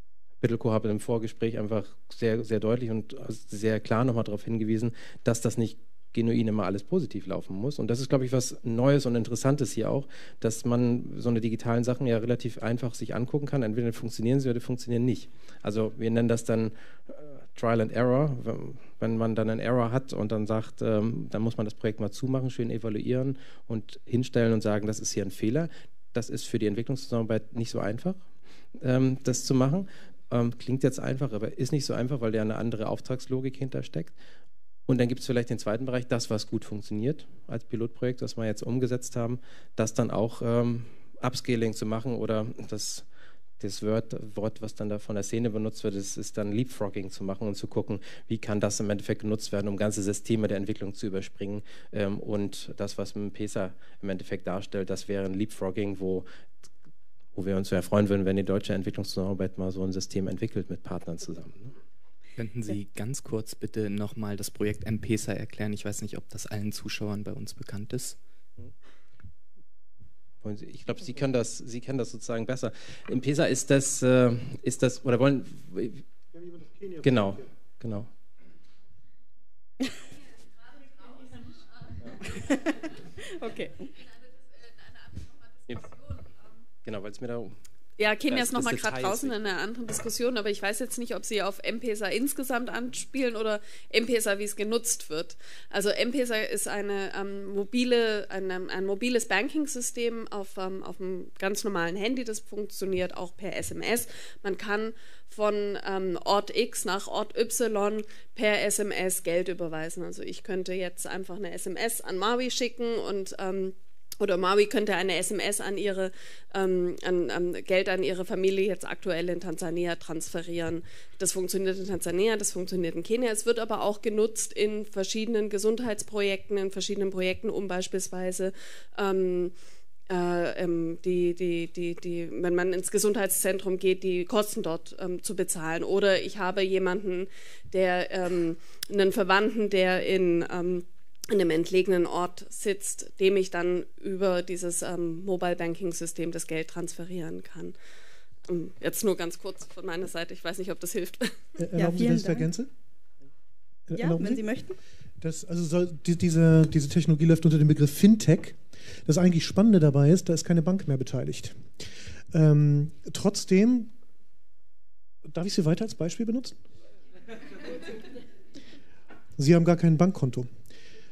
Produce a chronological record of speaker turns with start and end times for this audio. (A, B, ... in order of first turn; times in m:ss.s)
0:00.4-0:28.2 A
0:28.8-0:34.2 A
0:34.9-0:43.0 A
0:43.6-0:56.2 A
0:57.3-1:01.7 A
1:02.4-1:08.2 B
1:10.4-1:16.0 A
1:17.0-1:18.1 A
1:22.2-1:23.9 C
1:25.7-1:26.0 A
1:26.8-1:27.5 A
1:28.0-2:09.5 D
1:28.3-1:29.5 A
2:10.1-2:27.8 D
2:28.5-2:31.4 D
2:31.6-2:32.7 E
2:31.8-2:32.5 C
2:33.9-2:34.4 E
2:34.0-2:34.8 C
2:35.2-2:41.7 E
2:42.3-2:43.9 E
2:45.3-2:46.6 E
2:49.4-2:50.5 E